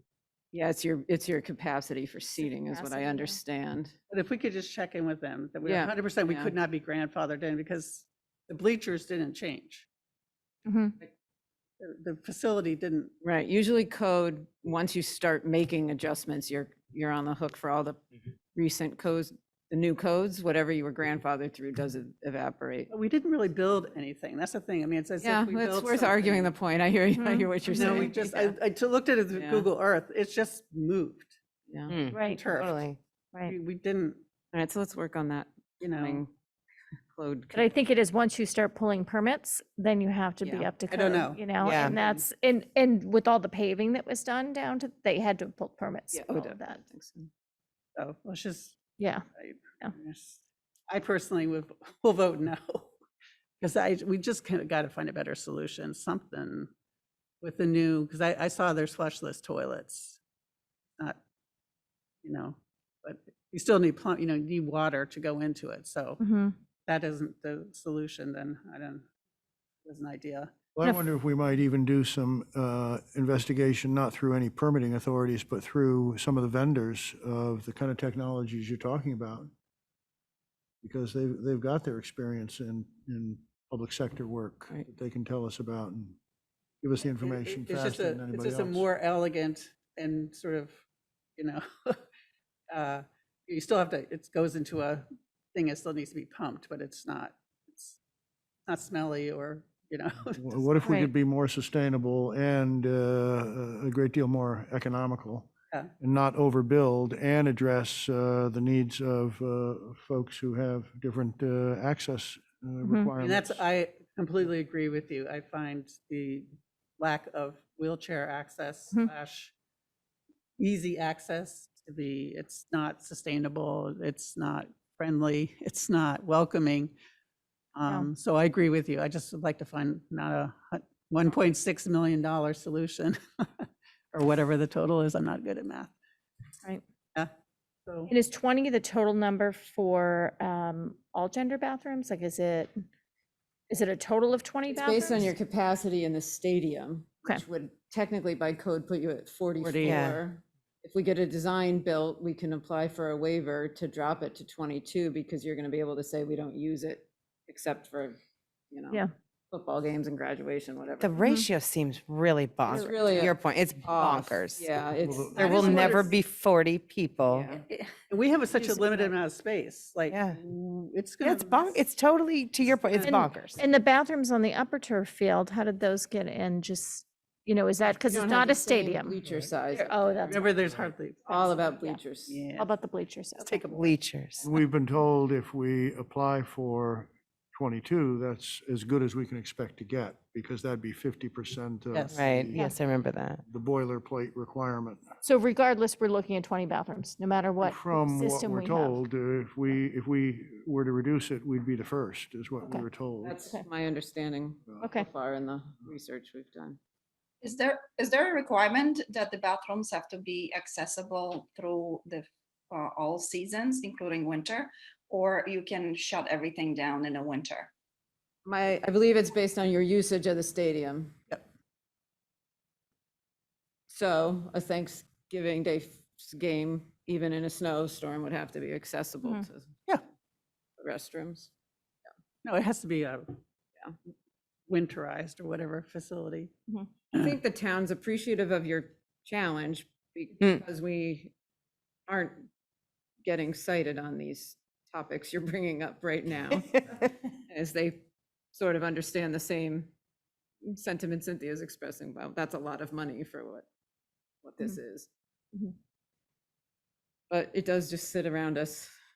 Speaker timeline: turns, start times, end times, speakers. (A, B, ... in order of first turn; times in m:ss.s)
0:00.5-0:03.9 A
0:02.4-0:03.4 B
0:04.1-0:09.9 C
0:05.6-0:06.6 A
0:10.7-0:11.0 B
0:11.8-0:13.1 C
0:13.2-0:18.0 A
0:18.5-0:22.9 A
0:22.9-0:26.5 C
0:25.2-0:28.6 A
0:27.1-0:28.1 B
0:27.7-0:31.3 C
0:29.3-0:29.7 A
0:31.7-0:32.0 A
0:31.9-0:33.0 D
0:32.1-0:32.8 C
0:32.1-0:32.5 B
0:33.4-0:34.2 C
0:34.5-0:36.3 A
0:35.8-0:36.2 C
0:37.1-0:37.8 A
0:37.5-0:46.8 B
0:40.4-0:40.7 A
0:40.9-0:42.2 C
0:41.6-0:42.0 D
0:46.1-0:47.3 A
0:48.0-0:48.8 C
0:49.0-0:49.2 B
0:49.4-0:53.0 C
0:53.6-0:56.7 C
0:57.4-1:00.2 C
1:02.2-1:06.2 C
1:06.2-1:06.5 B
1:06.9-1:09.1 C
1:09.8-1:10.5 C
1:10.8-1:19.5 E
1:20.8-1:26.2 E
1:26.8-1:28.9 E
1:27.2-1:30.8 C
1:31.4-1:32.0 C
1:32.7-1:38.0 C
1:38.7-1:40.8 C
1:40.4-1:53.6 E
1:40.8-1:41.1 B
1:52.8-1:53.1 B
1:53.2-1:59.5 C
2:00.6-2:06.9 C
2:07.8-2:15.9 C
2:17.9-2:18.1 C
2:18.1-2:22.7 B
2:23.7-2:25.3 B
2:24.7-2:38.2 A
2:29.6-2:30.1 C
2:29.8-2:30.2 D
2:38.7-2:41.2 A
2:41.0-2:44.7 D
2:41.2-2:41.5 B
2:42.7-2:45.8 A
2:45.0-2:45.4 E
2:45.4-2:46.2 C
2:45.4-2:47.5 D
2:47.3-2:47.6 A
2:47.7-2:51.8 C
2:48.6-2:49.2 B
2:50.1-2:50.4 D
2:51.2-2:53.6 D
2:52.9-2:53.4 C
2:53.0-2:59.2 B
2:58.1-3:00.4 A
2:59.3-2:59.5 E
2:59.7-3:00.6 B
3:00.3-3:01.4 C
3:01.3-3:02.0 B
3:01.3-3:02.4 A
3:02.3-3:02.7 C
3:02.6-3:03.7 B
3:03.4-3:04.0 C
3:03.7-3:04.5 D
3:04.4-3:12.7 E
3:11.9-3:12.3 C
3:12.1-3:13.4 D
3:13.5-3:15.0 E
3:15.2-3:18.9 B
3:17.6-3:23.4 E
3:23.2-3:26.8 A
3:24.8-3:25.1 B
3:27.4-3:37.7 F
3:38.4-3:41.1 A
3:43.9-3:49.7 A
3:50.8-3:51.5 A
3:52.4-3:53.4 C
3:54.7-3:56.5 C
3:57.1-4:01.3 A
4:02.1-4:02.5 A
4:03.2-4:09.9 A
4:06.7-4:07.0 D
4:10.6-4:13.7 A
4:14.4-4:15.1 A
4:17.3-4:18.9 A